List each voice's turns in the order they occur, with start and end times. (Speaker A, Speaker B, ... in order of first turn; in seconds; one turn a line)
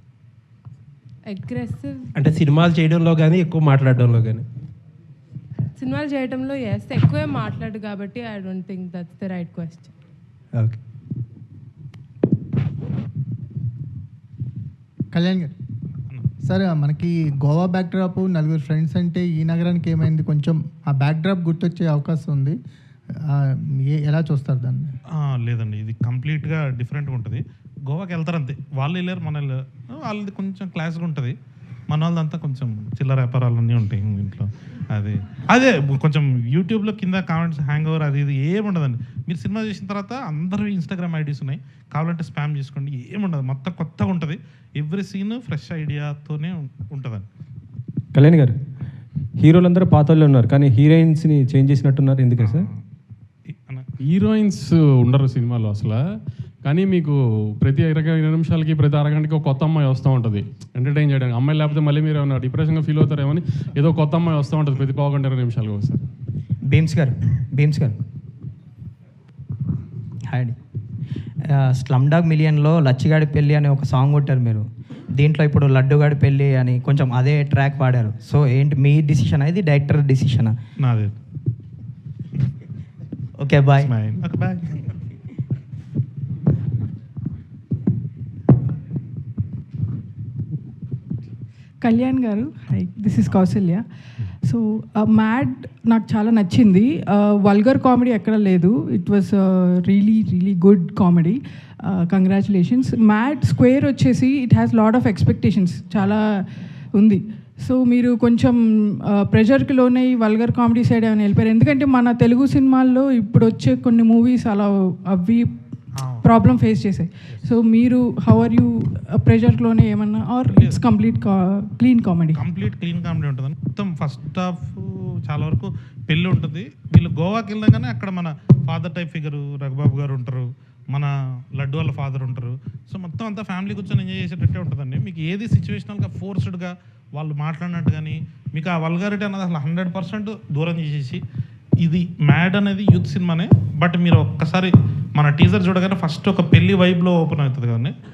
Speaker A: 1.3-2.1
Speaker B: 2.1-4.4
Speaker A: 5.8-9.9
Speaker C: 15.1-15.5
Speaker C: 16.4-22.6
Speaker C: 23.3-24.9
Speaker D: 25.1-31.3
Speaker D: 31.9-47.3
Speaker E: 48.1-48.6
Speaker E: 49.4-52.7
Speaker D: 52.4-52.8
Speaker D: 53.5-53.8
Speaker F: 54.1-56.0
Speaker F: 56.6-66.0
Speaker G: 66.7-68.0
Speaker G: 70.3-70.5
Speaker G: 71.5-80.5
Speaker D: 80.8-81.2
Speaker G: 83.4-83.9
Speaker D: 83.8-84.9
Speaker H: 91.8-93.8
Speaker H: 94.4-115.5
Speaker D: 116.0-116.3
Speaker H: 116.2-122.4
Speaker D: 120.5-120.8
Speaker D: 122.3-141.2
Speaker D: 141.8-147.9